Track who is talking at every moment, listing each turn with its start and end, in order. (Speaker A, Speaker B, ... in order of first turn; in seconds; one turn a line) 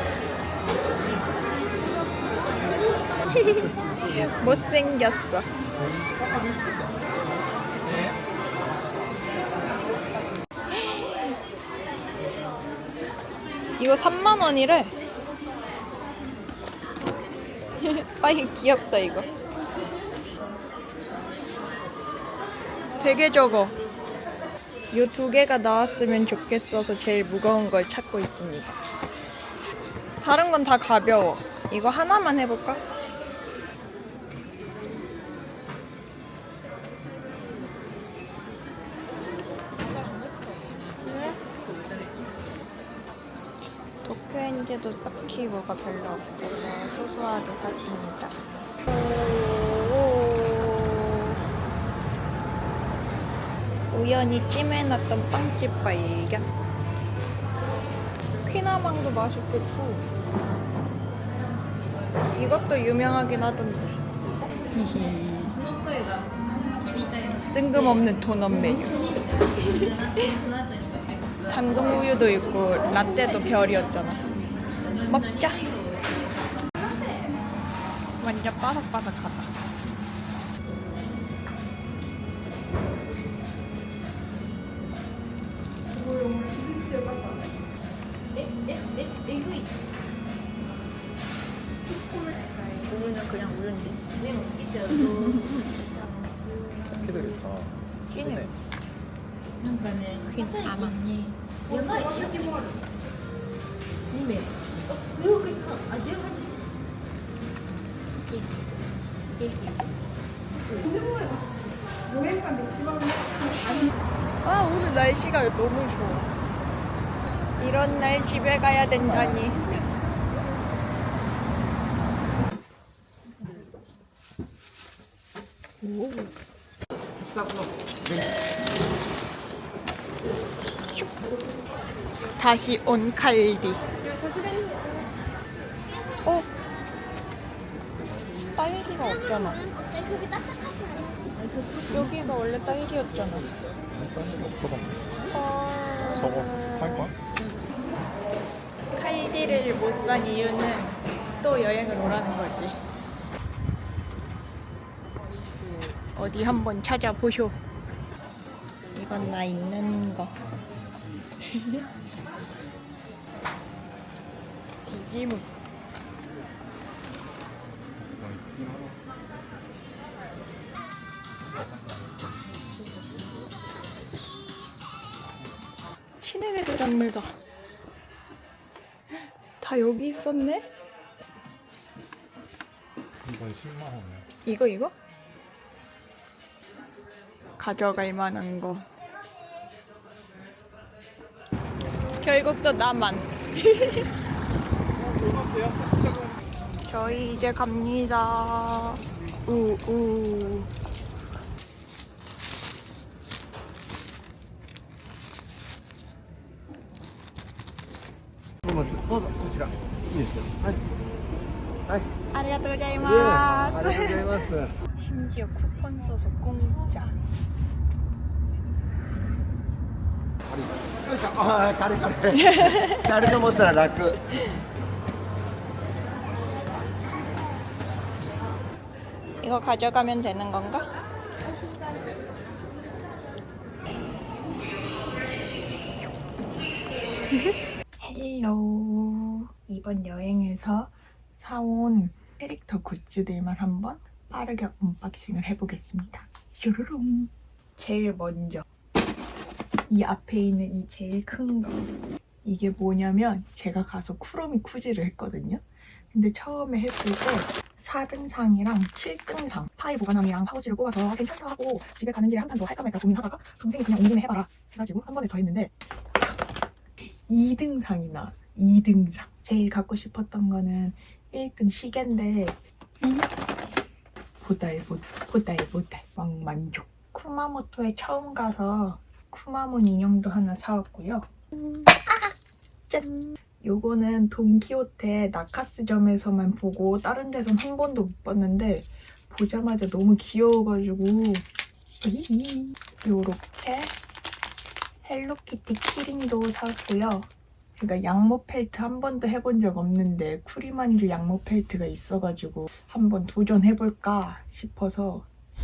Speaker A: 3.3-5.5
Speaker A: 10.7-11.2
Speaker A: 13.8-14.9
Speaker A: 17.8-19.3
Speaker A: 23.0-23.8
Speaker A: 24.9-28.8
Speaker A: 30.2-32.8
Speaker B: 40.0-40.7
Speaker A: 41.0-41.4
Speaker A: 44.0-51.4
Speaker A: 53.9-56.5
Speaker A: 58.4-60.1
Speaker A: 62.3-64.0
Speaker A: 64.7-65.6
Speaker B: 65.7-67.5
Speaker A: 67.5-70.3
Speaker B: 70.0-71.3
Speaker A: 71.5-74.2
Speaker A: 75.1-75.7
Speaker A: 78.2-79.5
Speaker B: 88.3-89.7
Speaker A: 92.3-94.0
Speaker B: 94.3-95.4
Speaker A: 94.9-95.7
Speaker B: 96.0-97.4
Speaker A: 98.1-98.5
Speaker B: 99.6-101.0
Speaker A: 100.3-101.2
Speaker B: 101.7-102.7
Speaker B: 104.1-106.4
Speaker B: 108.3-108.5
Speaker B: 109.3-109.9
Speaker B: 110.7-111.1
Speaker A: 114.4-116.3
Speaker A: 117.6-119.8
Speaker A: 125.8-126.3
Speaker A: 132.4-133.8
Speaker A: 138.6-139.6
Speaker A: 141.8-143.5
Speaker C: 143.9-145.1
Speaker A: 145.3-147.1
Speaker C: 146.2-147.2
Speaker A: 148.9-152.8
Speaker A: 156.1-157.6
Speaker A: 158.9-160.3
Speaker C: 160.4-161.2
Speaker A: 161.5-161.8
Speaker C: 162.1-162.4
Speaker A: 164.8-165.5
Speaker C: 168.0-169.0
Speaker C: 171.6-172.4
Speaker A: 176.2-177.3
Speaker A: 179.6-180.7
Speaker C: 183.2-184.3
Speaker A: 184.4-184.9
Speaker A: 187.6-188.8
Speaker A: 192.2-194.1
Speaker A: 196.9-200.7
Speaker A: 212.3-217.2
Speaker A: 222.3-224.4
Speaker A: 229.4-230.9
Speaker A: 237.3-248.7
Speaker A: 249.9-251.9
Speaker A: 252.4-265.7
Speaker A: 267.0-273.3
Speaker A: 274.4-282.4
Speaker A: 282.9-291.4
Speaker A: 292.0-293.9
Speaker A: 295.0-305.3